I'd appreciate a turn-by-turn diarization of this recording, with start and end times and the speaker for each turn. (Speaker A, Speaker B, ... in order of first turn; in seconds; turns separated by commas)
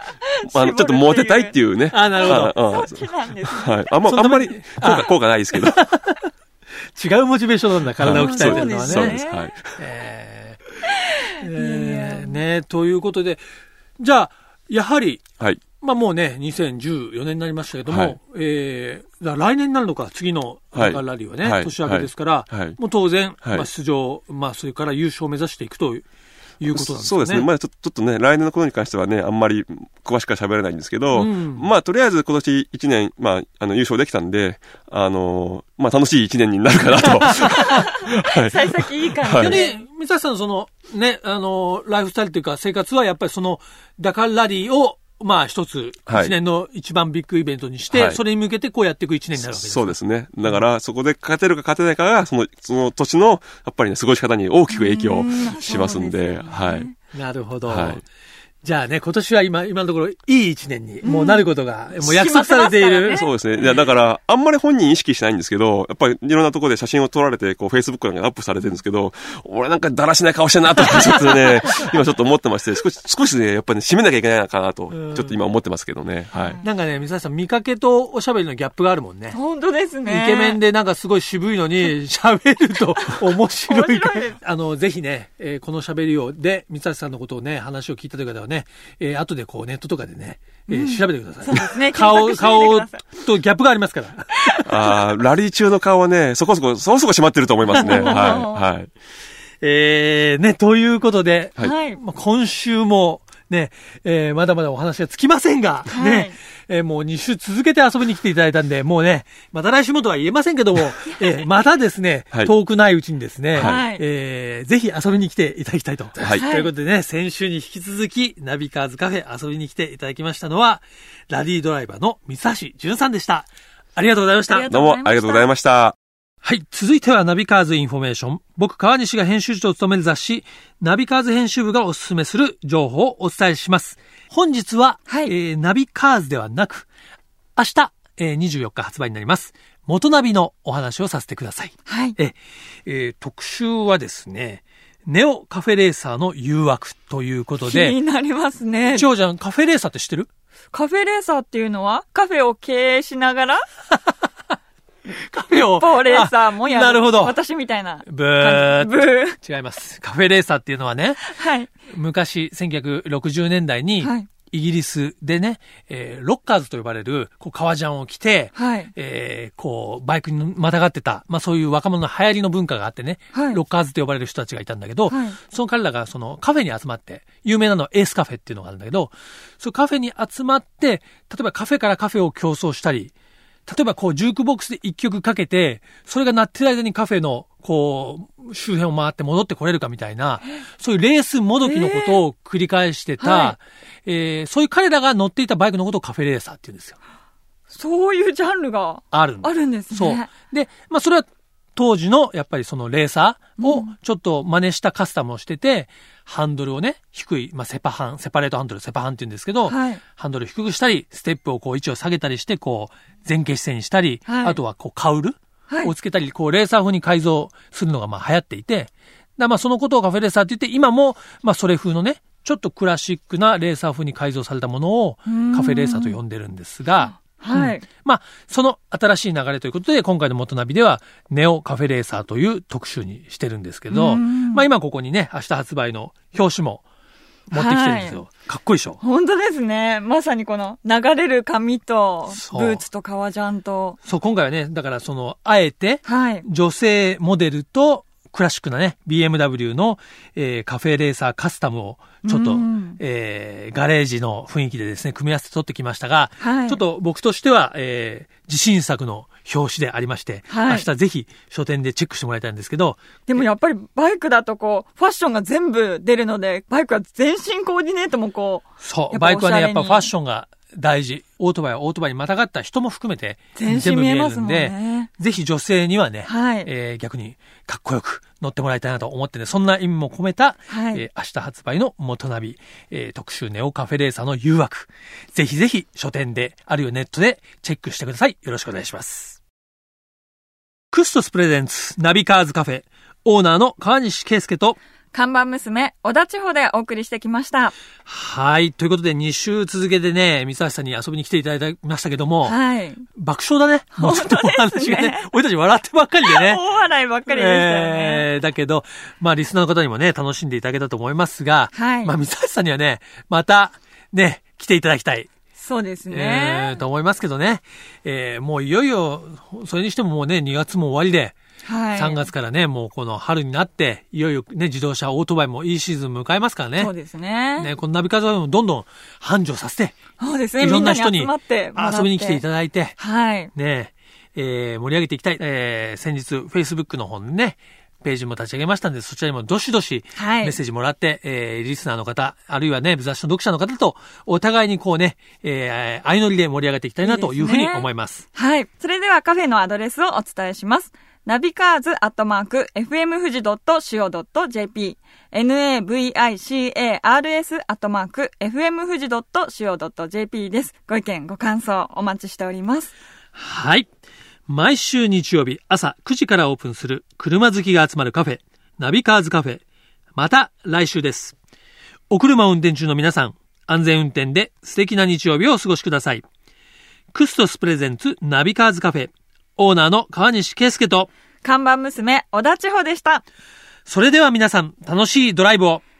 Speaker A: 0.3-3.8, Speaker B: 0.5-5.8, Speaker C: 1.9-2.6, Speaker C: 4.0-6.3, Speaker C: 6.9-9.2, Speaker B: 8.0-9.7, Speaker A: 8.1-9.5, Speaker C: 9.8-10.7, Speaker A: 11.2-12.4, Speaker C: 11.3-13.4, Speaker C: 14.0-15.2, Speaker C: 15.8-26.1, Speaker B: 17.9-18.2, Speaker B: 20.7-22.8, Speaker C: 26.6-27.5, Speaker B: 26.7-39.6, Speaker C: 31.1-31.7, Speaker A: 37.7-39.8, Speaker C: 39.4-50.6, Speaker B: 46.1-46.3, Speaker B: 47.9-48.2, Speaker B: 49.4-56.9, Speaker A: 54.7-57.0, Speaker C: 57.1-58.0, Speaker B: 57.6-58.0, Speaker C: 58.6-63.2, Speaker A: 61.0-61.5, Speaker A: 62.0-63.4, Speaker B: 63.1-76.6, Speaker C: 74.9-75.4, Speaker A: 76.3-76.6, Speaker C: 76.6-79.4, Speaker A: 79.3-80.6, Speaker C: 80.0-94.6, Speaker A: 83.7-84.4, Speaker A: 90.7-93.0, Speaker B: 94.6-98.9, Speaker A: 97.7-98.7, Speaker C: 97.8-98.3, Speaker C: 99.6-124.7, Speaker A: 101.6-102.0, Speaker A: 105.9-106.3, Speaker B: 113.5-113.8, Speaker A: 113.6-114.0, Speaker B: 116.2-116.4, Speaker A: 116.3-116.7, Speaker A: 124.5-125.5, Speaker B: 124.7-126.0, Speaker C: 126.4-136.9, Speaker C: 137.6-147.9, Speaker A: 141.9-142.2, Speaker A: 147.6-149.1, Speaker C: 148.9-150.3, Speaker A: 150.7-153.6, Speaker C: 155.1-157.4, Speaker A: 155.5-159.4, Speaker C: 158.0-161.3, Speaker A: 161.2-161.7, Speaker C: 161.9-183.1, Speaker A: 164.0-164.3, Speaker A: 168.6-168.9, Speaker A: 173.3-173.6, Speaker A: 175.1-175.4, Speaker C: 183.7-197.0, Speaker A: 191.6-192.2, Speaker A: 193.2-193.6, Speaker A: 197.7-200.3, Speaker C: 199.1-236.8, Speaker A: 203.6-203.9, Speaker A: 209.7-210.0, Speaker A: 214.3-214.6, Speaker A: 225.3-226.2, Speaker A: 227.0-227.8, Speaker A: 233.9-234.7, Speaker C: 237.5-239.0, Speaker A: 237.5-238.2, Speaker A: 239.0-244.0, Speaker C: 242.3-242.8, Speaker C: 244.0-263.4, Speaker A: 246.0-246.4, Speaker A: 252.2-253.0, Speaker A: 256.4-256.8, Speaker A: 260.5-260.9, Speaker A: 263.3-270.1, Speaker C: 268.8-289.4, Speaker A: 273.5-275.1, Speaker A: 276.2-276.7, Speaker A: 280.7-281.0, Speaker C: 290.9-294.8, Speaker A: 295.1-297.7, Speaker C: 298.1-302.6, Speaker A: 302.4-303.0, Speaker C: 303.1-306.6, Speaker A: 304.0-305.3, Speaker A: 306.2-308.3, Speaker C: 307.2-315.3, Speaker A: 311.7-312.1, Speaker A: 315.6-316.8, Speaker C: 316.1-321.4, Speaker A: 321.6-322.3, Speaker C: 321.9-326.9, Speaker A: 326.8-327.7, Speaker C: 327.6-330.0, Speaker A: 330.2-332.4, Speaker C: 330.6-333.0, Speaker A: 333.0-333.5, Speaker C: 333.5-348.2, Speaker A: 340.1-340.6, Speaker A: 347.0-362.9, Speaker C: 363.3-363.9, Speaker C: 364.5-369.6, Speaker C: 370.1-371.4, Speaker C: 372.1-376.2, Speaker C: 377.1-381.1, Speaker A: 381.4-383.2, Speaker C: 383.9-385.8